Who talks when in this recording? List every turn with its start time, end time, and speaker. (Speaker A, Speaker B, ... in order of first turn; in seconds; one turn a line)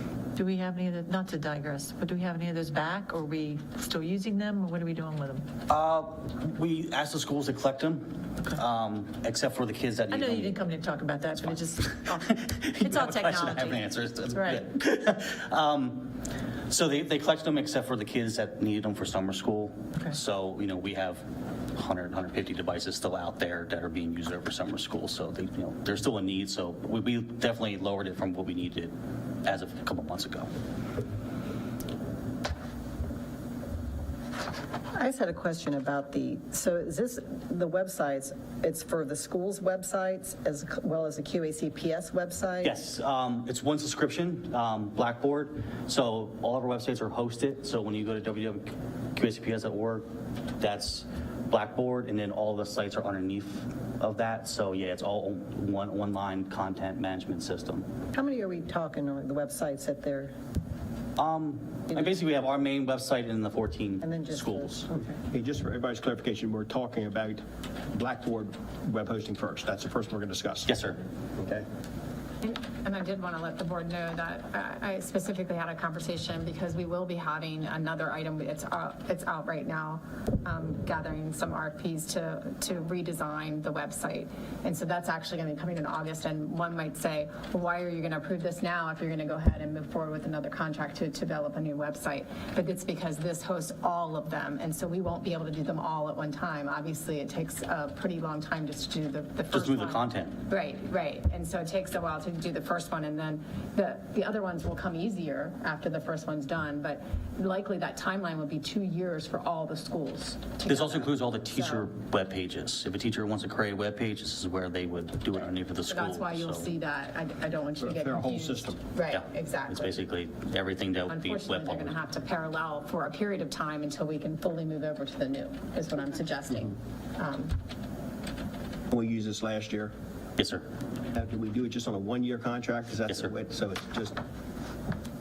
Speaker A: 0.3-5.5
Speaker B: 5.7-10.6
Speaker A: 10.1-14.6
Speaker B: 11.4-30.5
Speaker C: 34.9-42.8
Speaker B: 42.6-50.1
Speaker B: 50.6-57.9
Speaker C: 58.1-60.3
Speaker B: 61.2-64.9
Speaker C: 64.0-65.2
Speaker D: 65.3-67.4
Speaker D: 67.9-70.8
Speaker B: 70.7-71.0
Speaker D: 71.4-71.7
Speaker E: 72.4-111.9
Speaker B: 99.5-100.4
Speaker B: 110.7-116.7
Speaker E: 115.9-119.9
Speaker D: 117.8-118.8
Speaker B: 119.1-121.9
Speaker E: 121.1-127.5
Speaker D: 128.9-129.9
Speaker B: 130.4-130.6
Speaker D: 131.1-134.2